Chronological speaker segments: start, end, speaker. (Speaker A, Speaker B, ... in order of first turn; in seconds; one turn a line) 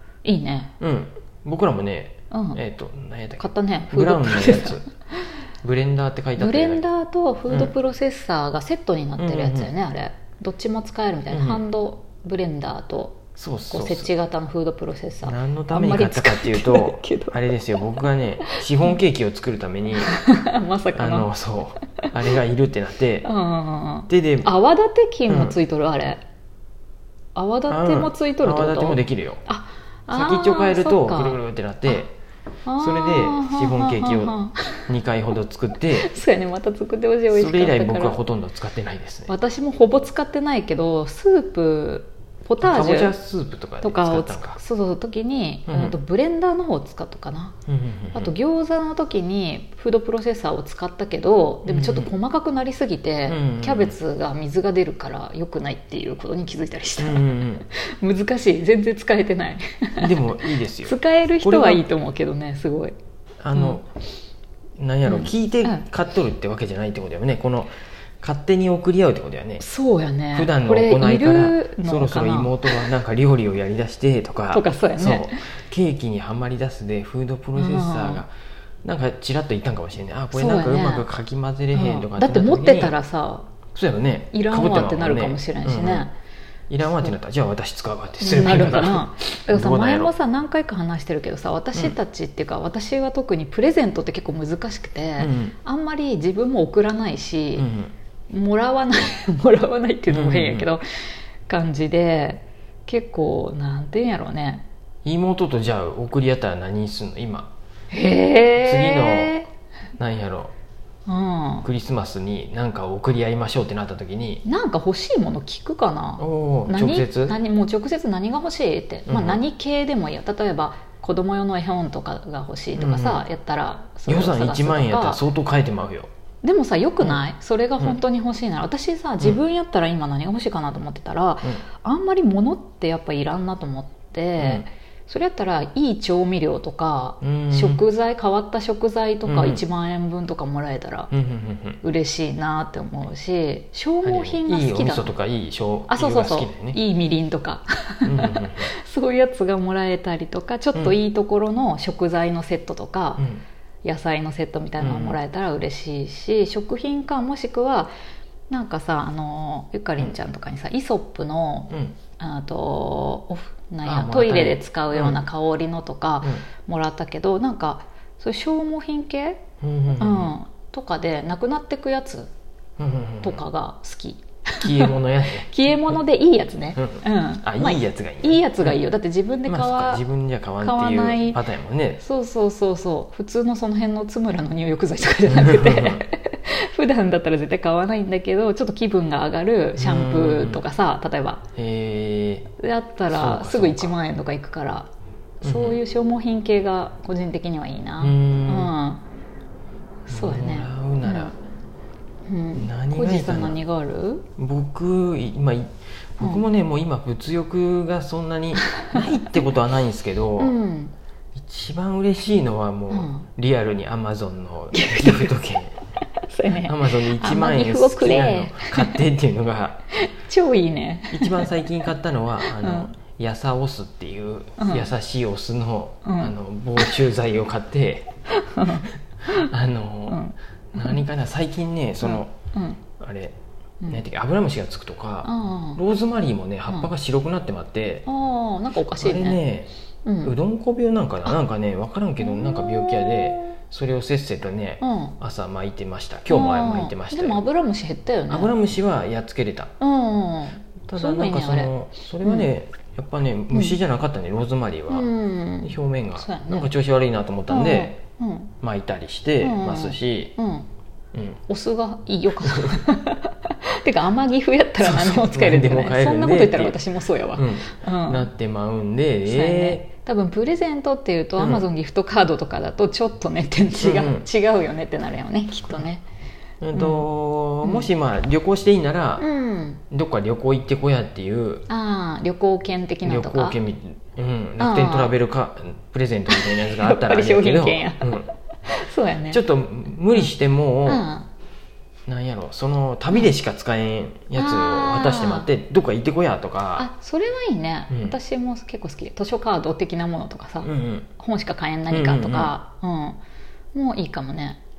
Speaker A: 0.2-0.7
Speaker B: 0.8-4.9
Speaker A: 2.3-2.6
Speaker A: 3.4-4.8
Speaker B: 5.6-6.8
Speaker A: 6.4-17.9
Speaker B: 9.2-9.7
Speaker B: 11.3-11.6
Speaker B: 13.3-14.1
Speaker B: 15.2-20.1
Speaker A: 18.4-18.9
Speaker A: 20.1-21.3
Speaker B: 20.9-23.3
Speaker A: 23.2-26.2
Speaker B: 24.1-24.5
Speaker B: 25.3-25.6
Speaker A: 27.3-32.0
Speaker B: 27.7-29.4
Speaker B: 30.1-32.1
Speaker A: 32.6-34.9
Speaker B: 32.8-36.1
Speaker A: 36.0-38.2
Speaker B: 37.3-39.3
Speaker A: 39.3-43.1
Speaker B: 42.6-44.6
Speaker A: 43.8-47.5
Speaker B: 45.7-45.9
Speaker B: 47.7-48.3
Speaker A: 48.1-62.9
Speaker B: 51.6-52.1
Speaker B: 53.3-54.0
Speaker B: 57.0-57.6
Speaker B: 60.0-61.8
Speaker B: 63.4-63.9
Speaker A: 63.5-63.8
Speaker B: 64.8-69.6
Speaker A: 65.0-65.8
Speaker A: 69.6-72.9
Speaker B: 70.3-78.3
Speaker A: 74.5-75.4
Speaker A: 77.5-78.2
Speaker B: 78.8-82.9
Speaker A: 80.3-81.1
Speaker A: 81.7-83.5
Speaker B: 83.7-86.1
Speaker A: 84.3-86.1
Speaker B: 86.7-90.1
Speaker A: 86.8-87.1
Speaker A: 88.2-97.7
Speaker B: 95.2-95.6
Speaker B: 97.5-97.9
Speaker A: 98.3-100.8
Speaker B: 100.1-100.7
Speaker A: 101.5-104.6
Speaker B: 105.0-107.5
Speaker A: 107.9-109.5
Speaker B: 108.5-109.4
Speaker B: 110.0-110.5
Speaker A: 111.0-111.7
Speaker B: 111.6-114.4
Speaker A: 114.4-125.2
Speaker B: 116.2-117.4
Speaker B: 119.1-119.4
Speaker B: 122.8-123.2
Speaker B: 124.0-126.1
Speaker A: 126.4-141.1
Speaker B: 134.4-134.7
Speaker B: 137.2-137.8
Speaker B: 139.2-139.6
Speaker B: 141.1-141.8
Speaker A: 141.8-145.1
Speaker B: 144.0-146.8
Speaker A: 145.9-153.2
Speaker B: 148.0-148.7
Speaker A: 153.8-157.9
Speaker B: 154.8-155.2
Speaker A: 158.5-169.4
Speaker B: 161.7-162.0
Speaker B: 163.8-165.2
Speaker B: 169.6-170.3
Speaker A: 170.0-172.3
Speaker B: 172.8-173.4
Speaker A: 173.2-180.0
Speaker B: 174.6-176.0
Speaker B: 176.8-178.8
Speaker B: 179.4-182.0
Speaker A: 180.6-181.4
Speaker A: 182.0-191.4
Speaker B: 185.3-186.0
Speaker B: 189.8-190.6
Speaker B: 191.6-192.5
Speaker A: 192.6-194.9
Speaker B: 193.1-193.9
Speaker A: 195.4-199.0
Speaker B: 195.4-195.8
Speaker B: 198.0-198.7
Speaker A: 200.1-201.3
Speaker B: 200.1-201.4
Speaker A: 202.3-204.2
Speaker B: 202.6-203.6
Speaker B: 204.4-210.5
Speaker A: 208.8-209.1
Speaker A: 210.4-210.9
Speaker B: 211.3-215.8
Speaker A: 212.9-213.2
Speaker A: 214.7-215.3
Speaker A: 216.3-219.0
Speaker B: 216.5-219.8
Speaker A: 220.0-221.5
Speaker B: 221.1-228.1
Speaker A: 222.5-222.9
Speaker A: 224.6-224.9
Speaker A: 226.0-227.0
Speaker A: 228.3-229.4
Speaker B: 229.3-230.2
Speaker A: 230.1-231.0
Speaker B: 230.7-232.3
Speaker A: 232.0-232.8
Speaker B: 232.9-233.3
Speaker B: 233.9-238.1
Speaker A: 235.2-235.8
Speaker A: 238.1-239.4
Speaker B: 238.9-239.7
Speaker A: 240.0-240.3
Speaker B: 240.2-247.4
Speaker A: 242.2-243.5
Speaker A: 244.8-245.2
Speaker A: 246.3-248.5
Speaker B: 248.3-249.7
Speaker A: 249.8-252.5
Speaker B: 250.8-258.0
Speaker A: 253.5-253.8
Speaker A: 254.9-256.7
Speaker A: 257.5-258.5
Speaker B: 258.6-260.3
Speaker A: 259.4-260.7
Speaker B: 261.1-261.4
Speaker A: 261.5-268.3
Speaker B: 262.5-262.7
Speaker B: 264.8-266.8
Speaker B: 267.3-269.9
Speaker A: 269.2-276.0
Speaker B: 271.4-271.6
Speaker B: 273.8-274.2
Speaker B: 276.6-279.2
Speaker A: 276.7-277.1
Speaker A: 277.6-277.9
Speaker A: 279.2-279.8
Speaker B: 279.9-281.6
Speaker A: 281.7-283.6
Speaker B: 283.0-288.3
Speaker A: 284.6-285.1
Speaker A: 286.3-288.1
Speaker A: 288.7-289.4
Speaker B: 289.3-291.1
Speaker A: 290.8-291.3
Speaker B: 292.1-296.9
Speaker A: 294.3-295.5
Speaker A: 296.8-303.2
Speaker B: 297.9-298.1
Speaker B: 300.6-301.1
Speaker B: 301.9-302.5
Speaker A: 303.7-304.6